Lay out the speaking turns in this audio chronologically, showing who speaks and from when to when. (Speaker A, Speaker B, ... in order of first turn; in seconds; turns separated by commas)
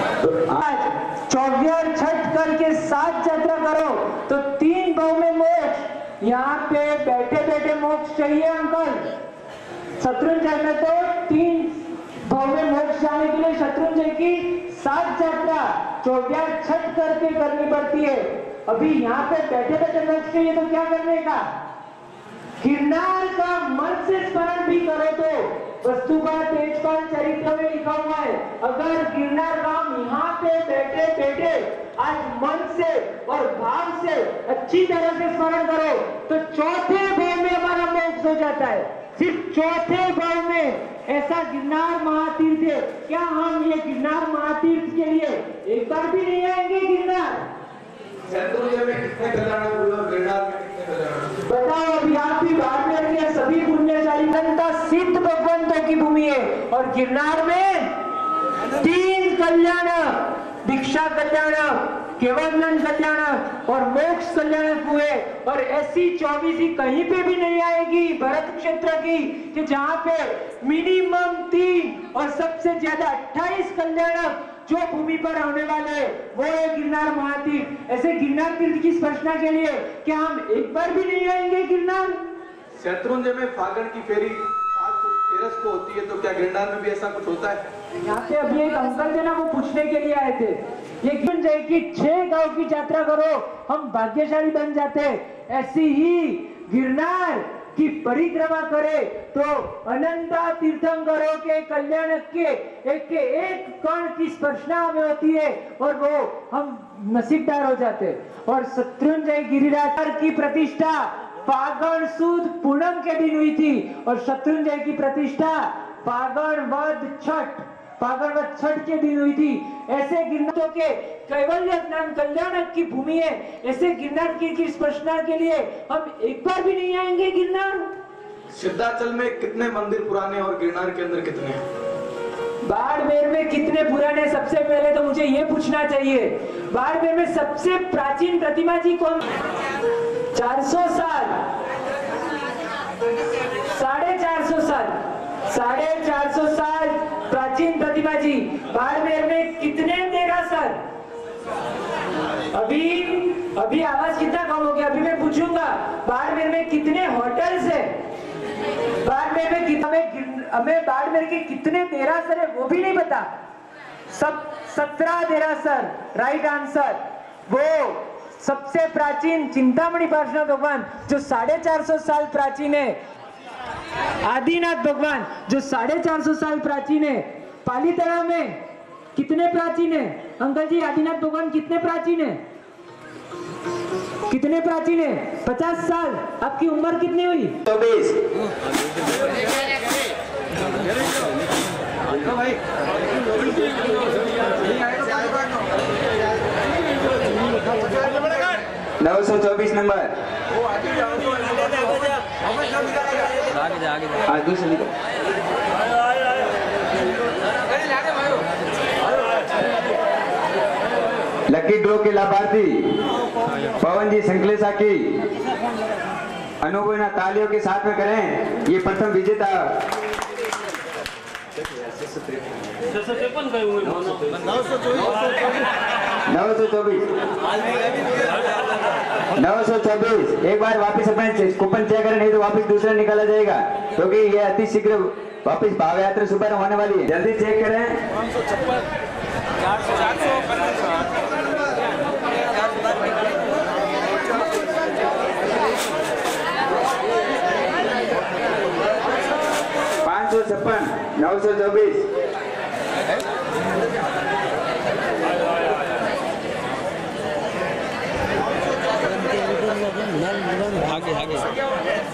Speaker A: 0.2-0.6, Speaker B: 0.6-9.1, Speaker B: 10.0-21.5, Speaker B: 22.6-47.5, Speaker C: 48.3-51.3, Speaker B: 51.5-58.0, Speaker B: 58.8-82.2, Speaker C: 82.8-87.6, Speaker B: 88.0-127.9, Speaker C: 128.5-131.6, Speaker B: 132.6-139.3, Speaker B: 140.3-141.4, Speaker B: 143.7-144.9, Speaker B: 145.5-150.8, Speaker B: 152.5-157.9, Speaker B: 159.0-163.3, Speaker B: 164.1-173.0, Speaker B: 174.2-178.6, Speaker B: 179.2-182.4, Speaker B: 184.3-187.6, Speaker A: 187.7-188.2, Speaker C: 193.5-194.0, Speaker C: 194.7-195.4, Speaker A: 199.0-200.1, Speaker C: 200.9-201.9, Speaker A: 203.7-204.9, Speaker A: 211.5-212.9, Speaker A: 213.7-215.1, Speaker A: 216.6-219.7, Speaker A: 226.3-227.1, Speaker A: 229.4-237.9, Speaker A: 250.1-252.1, Speaker A: 260.7-261.4